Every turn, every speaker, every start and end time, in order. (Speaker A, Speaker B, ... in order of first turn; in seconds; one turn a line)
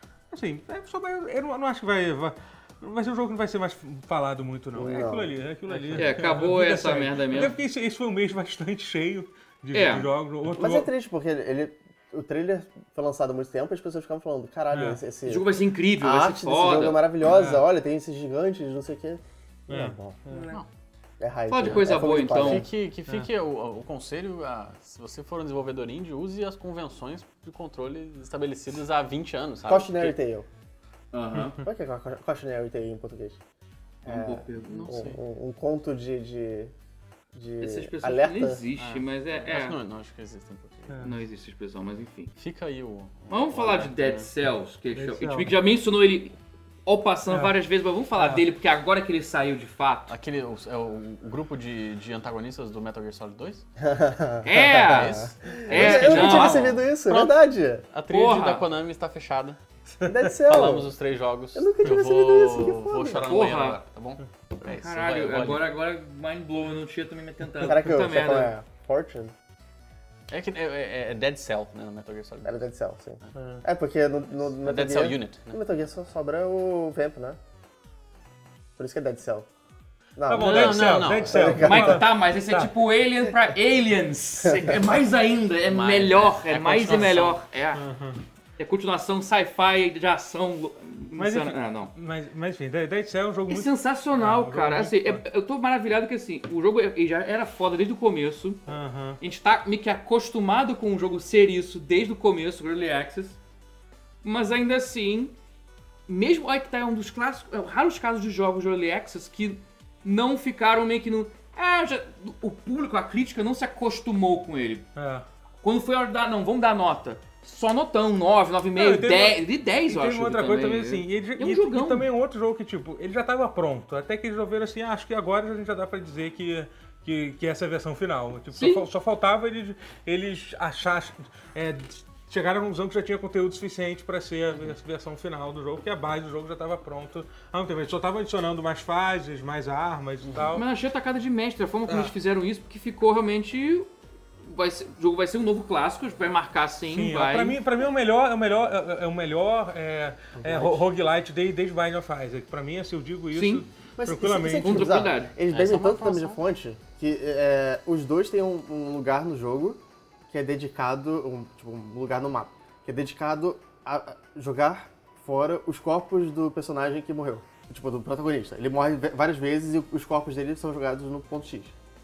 Speaker A: 0.3-10.9
Speaker B: 4.7-5.3
Speaker C: 5.7-6.1
Speaker D: 6.0-7.6
Speaker D: 9.7-10.1
Speaker B: 10.5-20.2
Speaker A: 14.7-15.0
Speaker D: 15.2-17.0
Speaker A: 17.2-17.6
Speaker A: 19.7-20.6
Speaker D: 20.3-20.6
Speaker B: 21.2-22.7
Speaker D: 21.5-22.7
Speaker C: 21.6-30.2
Speaker B: 29.7-30.5
Speaker D: 31.1-31.6
Speaker A: 31.3-31.6
Speaker B: 31.6-33.4
Speaker D: 34.0-35.0
Speaker B: 34.0-36.7
Speaker C: 34.6-35.2
Speaker B: 37.3-38.6
Speaker D: 37.6-39.8
Speaker C: 38.8-41.0
Speaker D: 41.0-42.3
Speaker C: 42.4-44.3
Speaker D: 43.3-50.1
Speaker A: 45.0-45.5
Speaker A: 48.2-48.4
Speaker C: 50.1-53.6
Speaker B: 53.8-57.8
Speaker D: 54.4-56.8
Speaker C: 54.7-57.4
Speaker C: 57.9-59.6
Speaker D: 58.1-58.6
Speaker B: 60.0-60.9
Speaker C: 60.4-65.7
Speaker B: 61.5-63.4
Speaker D: 63.2-63.8
Speaker D: 64.6-68.5
Speaker B: 67.6-69.3
Speaker C: 70.3-72.6
Speaker B: 72.4-77.4
Speaker A: 73.3-73.6
Speaker C: 74.6-75.6
Speaker B: 78.8-79.5
Speaker B: 80.2-82.1
Speaker A: 80.3-82.7
Speaker C: 80.3-81.7
Speaker D: 81.5-87.8
Speaker B: 84.4-84.8
Speaker C: 85.6-87.4
Speaker A: 87.8-88.2
Speaker D: 88.6-91.9
Speaker A: 91.2-95.2
Speaker D: 93.5-98.7
Speaker A: 98.7-99.2
Speaker D: 99.2-103.4
Speaker D: 104.2-105.3
Speaker D: 106.1-114.9
Speaker A: 115.0-115.2
Speaker D: 115.6-122.1
Speaker A: 118.8-140.7
Speaker D: 128.6-128.9
Speaker D: 140.5-143.9
Speaker A: 141.9-142.1
Speaker D: 144.4-147.6
Speaker A: 146.9-155.0
Speaker B: 150.5-150.7
Speaker D: 153.3-153.6
Speaker B: 154.0-171.7
Speaker D: 154.6-155.3
Speaker C: 155.5-156.4